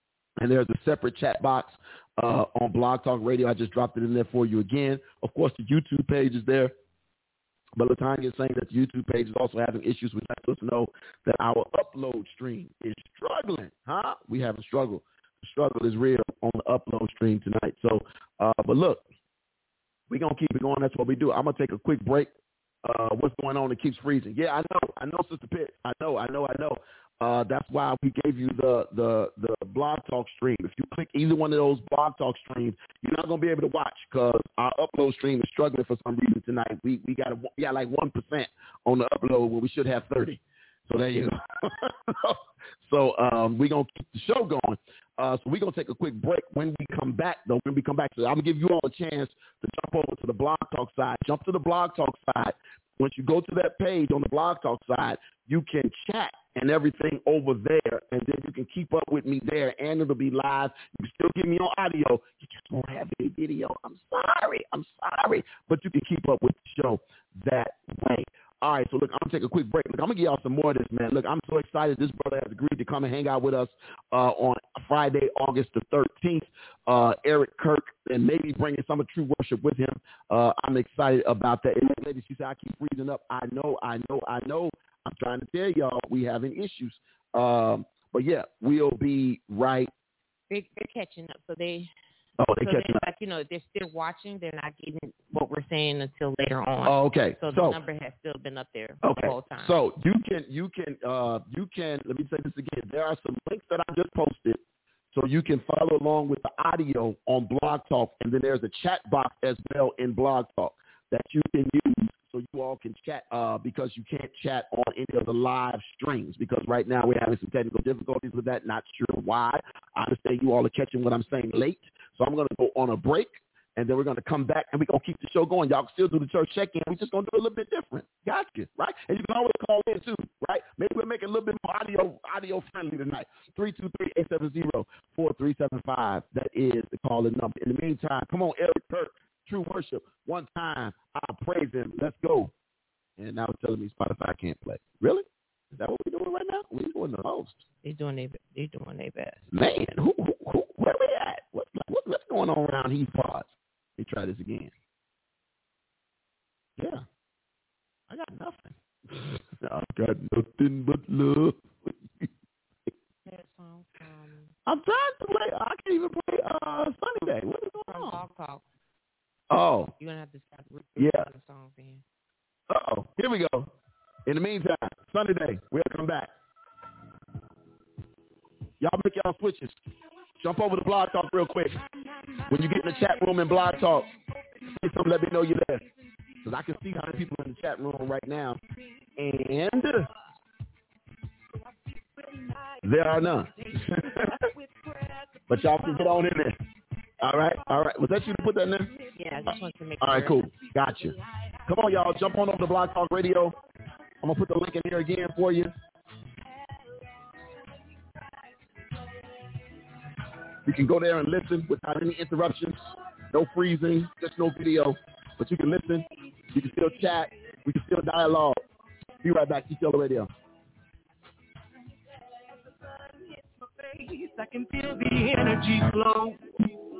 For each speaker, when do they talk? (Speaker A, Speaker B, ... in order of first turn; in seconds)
Speaker A: 0.4-6.7, 7.8-19.0, 20.1-22.3, 22.9-89.9, 92.4-93.0, 96.8-97.8, 99.0-104.6, 105.1-142.5, 143.2-147.6, 149.5-154.7, 156.8-157.0, 158.1-162.3, 164.7-168.2, 169.5-169.9, 171.0-171.3, 172.7-173.7, 174.3-176.3, 178.8-179.8, 180.4-181.8, 182.5-184.1, 184.8-185.8, 186.4-188.6, 189.2-190.1, 192.8-194.3, 195.5-196.6, 197.2-198.9, 200.0-201.2, 201.7-203.6, 204.2-205.7, 210.7-212.8, 213.3-218.6, 219.2-220.3
Speaker B: 90.5-91.9, 92.6-99.8, 147.8-149.4, 163.3-164.5, 167.9-168.6, 170.0-172.0, 199.2-200.5
Speaker C: 181.8-187.3, 191.5-196.6, 197.2-202.6, 206.4-209.0, 216.4-217.3, 222.2-226.6